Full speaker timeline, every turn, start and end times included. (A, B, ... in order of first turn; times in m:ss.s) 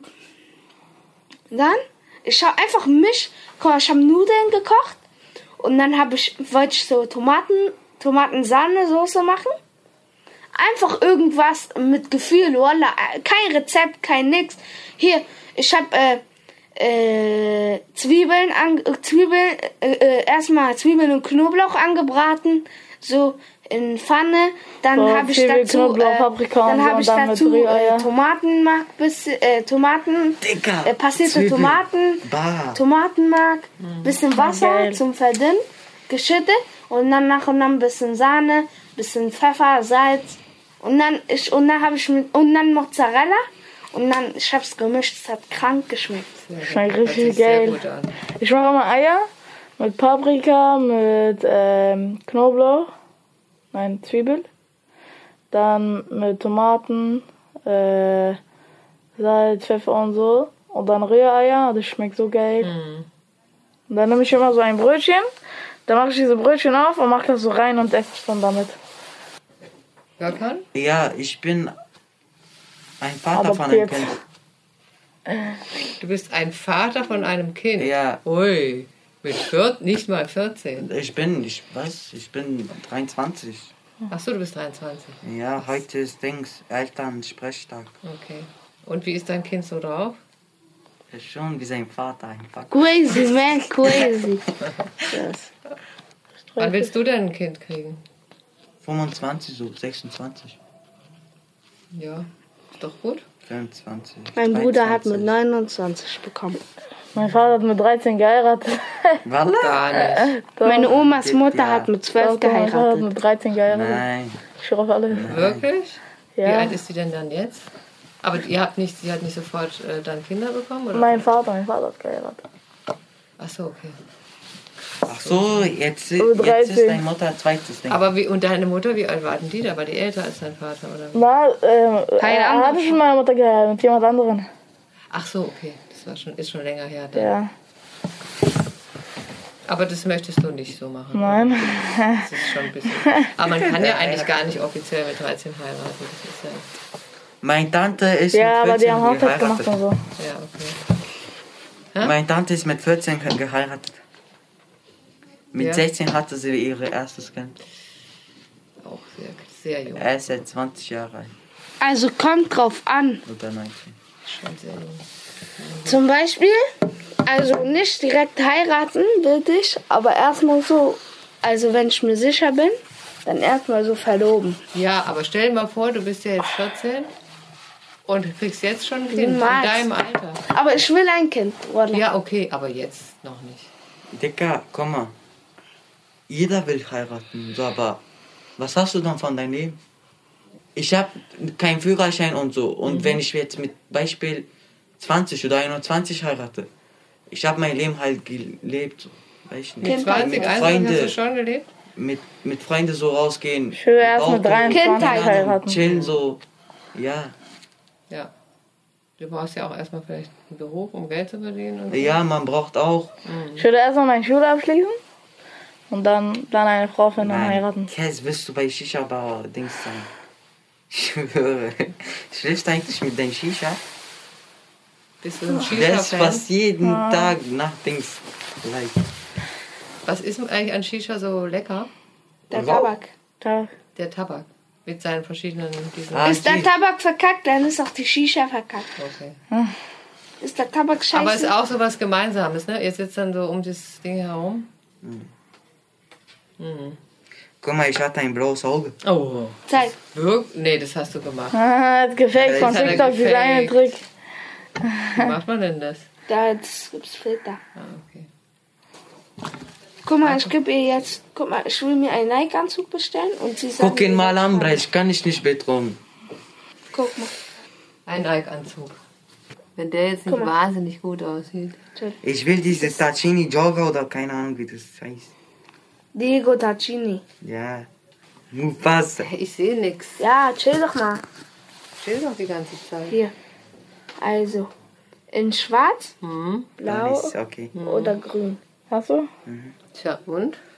0:01.5-0:05.0 A
0:05.6-0:09.6 A
0:10.6-0:16.2 A
0:16.8-0:46.4 A
0:25.0-0:28.1 B
0:30.4-0:32.8 C
0:33.8-0:34.2 D
0:34.3-0:35.0 B
0:46.5-0:48.2 D
0:46.6-0:47.8 B
0:48.4-0:52.9 B
0:53.7-0:54.5 B
0:55.5-0:58.4 B
0:59.2-1:02.7 B
1:02.6-1:03.1 D
1:03.9-1:05.3 B
1:05.9-1:08.8 B
1:10.2-1:10.7 D
1:10.7-1:11.8 C
1:13.0-1:14.2 C
1:13.3-1:14.2 B
1:16.0-1:20.9 D
1:17.8-1:18.2 C
1:20.8-1:23.7 C
1:24.1-1:25.8 D
1:25.2-1:27.9 C
1:28.0-1:30.2 D
1:31.1-1:33.4 C
1:32.7-1:34.5 A
1:35.0-1:35.5 A
1:36.6-1:36.9 B
1:36.6-1:38.0 D
1:38.8-1:40.6 C
1:41.9-1:43.2 D
1:43.5-1:45.3 C
1:44.4-1:46.6 A
1:47.2-1:49.2 B
1:49.2-1:50.0 C
1:49.6-1:50.3 D
1:50.0-1:50.9 B
1:50.6-1:53.1 A
1:50.9-1:51.9 C
1:52.2-1:54.0 B
1:53.7-1:54.4 C
1:54.6-1:55.4 B
1:55.1-1:55.6 C
1:55.3-1:57.7 D
1:56.4-1:56.8 B
1:58.2-2:01.3 D
2:00.9-2:02.4 B
2:03.4-2:04.0 D
2:05.0-2:08.0 C
2:05.1-2:05.7 D
2:06.2-2:07.0 B
2:07.9-2:11.2 D
2:11.1-2:14.5 B
2:12.2-2:13.0 A
2:15.1-2:17.3 D
2:17.1-2:17.5 B
2:19.7-2:26.7 D
2:21.1-2:22.3 B
2:23.0-2:23.3 B
2:23.5-2:24.4 C
2:27.4-2:29.8 C
2:28.3-2:30.0 B
2:30.2-2:30.8 D
2:32.0-2:34.0 C
2:35.5-2:37.6 C
2:35.6-2:35.9 D
2:38.8-2:40.1 D
2:39.9-2:41.3 C
2:41.8-2:43.2 A
2:43.2-2:44.0 C
2:44.2-2:45.0 D
2:45.6-2:46.0 D
2:45.9-2:46.7 A
2:47.2-2:54.6 A
2:54.7-2:57.1 D
2:58.1-3:00.4 D
2:59.1-2:59.9 A
3:00.5-3:02.0 A
3:01.9-3:03.7 D
3:04.1-3:05.1 C
3:06.3-3:08.0 C
3:08.6-3:09.8 C
3:10.8-3:14.5 C
3:12.9-3:13.2 D
3:15.0-3:16.7 C
3:17.3-3:21.2 C
3:19.8-3:21.7 D
3:19.8-3:20.6 A
3:22.0-3:26.4 C
3:23.7-3:25.8 B
3:24.7-3:25.4 A
3:25.8-3:26.2 D
3:26.9-3:27.4 C
3:29.2-3:32.2 D
3:31.9-3:33.1 C
3:33.2-3:33.7 D
3:33.6-3:35.0 B
3:35.9-3:37.9 B
3:37.2-3:40.1 C
3:40.9-3:43.8 C
3:45.2-3:46.4 D
3:45.6-3:49.0 C
3:46.8-3:47.4 B
3:50.0-3:51.9 D
3:52.5-3:53.1 A
3:52.5-3:52.9 C
3:53.4-3:53.7 B
3:54.0-3:56.4 D
3:56.1-3:56.7 C
3:56.2-3:58.9 A
3:59.0-3:59.4 D
4:00.4-4:01.5 A
4:01.1-4:04.7 D
4:05.0-4:05.3 C
4:06.6-4:07.0 D
4:07.6-4:09.0 C
4:09.0-4:11.6 D
4:11.5-4:14.0 B
4:12.4-4:13.2 C
4:12.5-4:13.9 D
4:14.8-4:15.3 B
4:15.1-4:16.1 D
4:16.3-4:17.6 A
4:17.8-4:18.3 D
4:20.0-4:24.8 A
4:20.2-4:20.5 D
4:23.8-4:26.0 C
4:26.9-4:27.4 A
4:28.1-4:29.0 D
4:29.8-4:31.8 D
4:32.2-4:35.3 C
4:36.2-4:37.2 A
4:37.4-4:37.9 C
4:38.5-4:39.3 C
4:39.2-4:40.2 D
4:40.2-4:41.2 A
4:42.0-4:43.2 D
4:44.2-4:44.7 A
4:45.3-4:46.1 A
4:46.2-4:46.7 D
4:46.8-4:48.6 A
4:46.8-4:47.7 C
4:47.7-4:48.2 D
4:48.9-4:49.3 B
4:49.5-4:49.7 C
4:49.9-4:50.6 D